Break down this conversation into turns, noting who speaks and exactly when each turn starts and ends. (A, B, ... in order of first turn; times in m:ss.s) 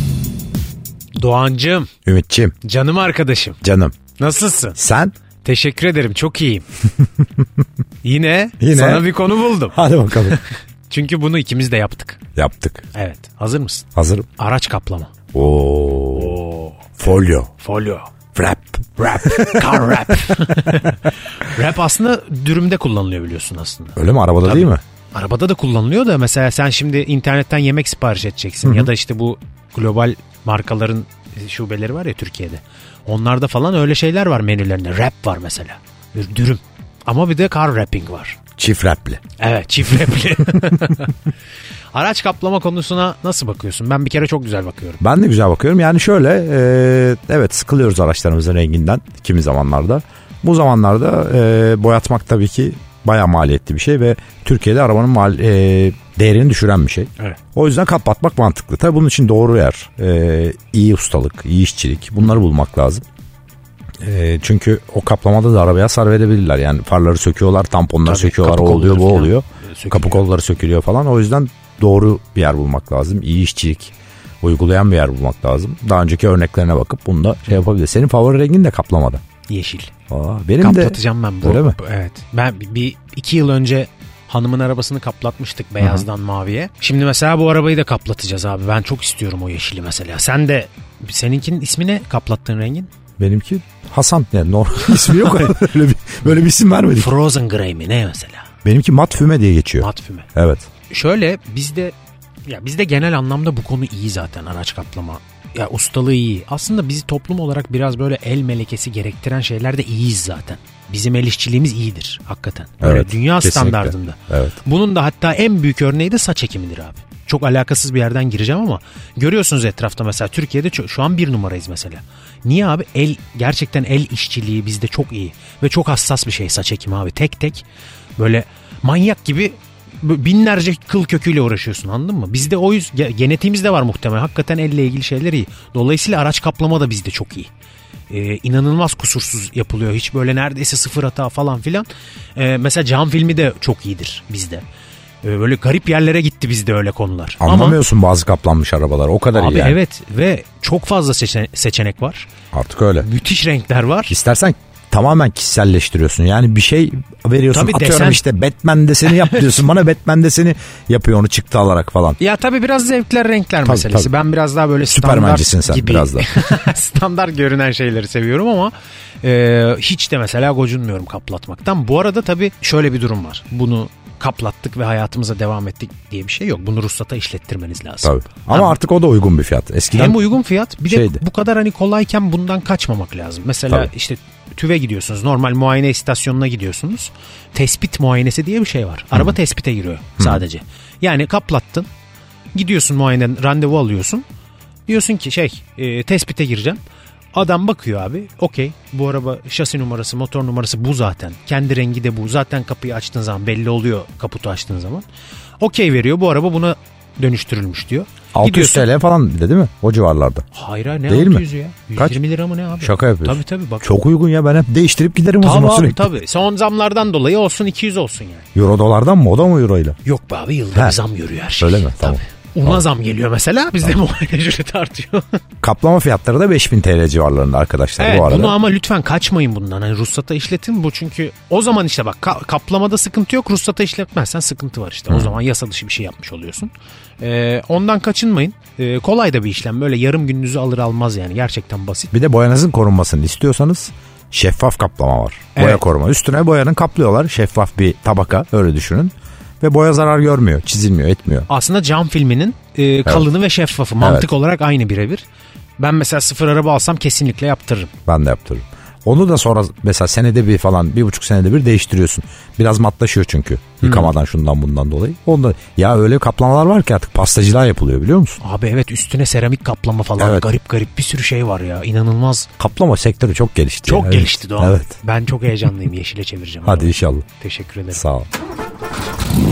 0:01.2-0:01.9 A
0:02.0-0:02.5 B
0:02.6-0:03.6 A
0:03.6-0:04.0 B
0:04.2-0:04.8 A
0:04.8-0:05.1 B
0:05.4-0:06.6 A
0:08.0-0:12.2 A
0:08.6-0:09.1 B
0:09.7-0:10.4 B
0:12.4-0:12.9 B
0:12.9-0:13.8 A
0:14.0-0:14.3 B
0:14.4-0:15.1 A
0:15.3-0:16.4 B
0:16.1-0:17.0 A
0:17.0-0:17.5 B
0:17.6-0:18.1 A
0:18.3-0:19.8 B
0:19.0-0:38.4 A
0:24.0-0:24.8 B
0:28.6-0:28.9 B
0:38.6-0:39.2 B
0:39.4-0:41.2 A
0:41.9-0:45.0 A
0:45.0-1:03.0 B
1:04.0-1:19.2 B
1:08.0-1:10.2 A
1:19.5-1:19.9 A
1:20.1-1:21.8 B
1:20.6-1:32.9 A
1:33.2-1:37.1 B
1:37.0-1:38.5 A
1:38.6-1:40.7 B
1:39.8-1:40.3 A
1:40.9-1:41.9 A
1:42.5-2:07.6 A
1:52.8-1:54.5 B
2:08.2-2:17.5 A
2:18.1-2:24.6 A
2:25.2-2:27.8 A
2:27.4-2:29.8 B
2:29.3-2:32.3 A
2:32.5-2:33.1 B
2:33.0-2:34.1 A
2:34.1-2:42.2 B
2:37.5-2:38.2 A
2:39.0-2:39.6 A
2:42.2-2:58.8 A
2:43.6-2:44.1 B
2:44.9-2:46.3 B
2:58.0-3:00.3 B
2:59.9-3:11.9 A
3:00.9-3:01.2 B
3:12.5-3:14.2 A
3:14.9-3:16.8 A
3:17.3-3:25.0 A
3:25.6-3:28.9 A
3:28.3-3:30.4 B
3:30.5-3:33.9 A
3:31.1-3:31.4 B
3:32.8-3:36.1 B
3:35.4-3:38.4 A
3:38.5-3:40.0 B
3:40.0-3:45.4 A
3:41.6-3:42.8 B
3:45.6-3:48.6 B
3:48.0-4:02.1 A
3:55.1-3:55.3 B
4:02.1-4:11.5 B
4:05.5-4:05.8 A
4:11.5-4:15.2 A
4:14.0-4:14.3 B
4:15.8-4:17.9 A
4:18.1-4:28.4 B
4:23.8-4:24.1 A
4:28.4-4:32.5 A
4:30.2-4:30.4 B
4:32.6-4:35.0 B
4:33.8-4:38.0 A
4:36.6-4:37.2 B
4:37.9-4:38.3 B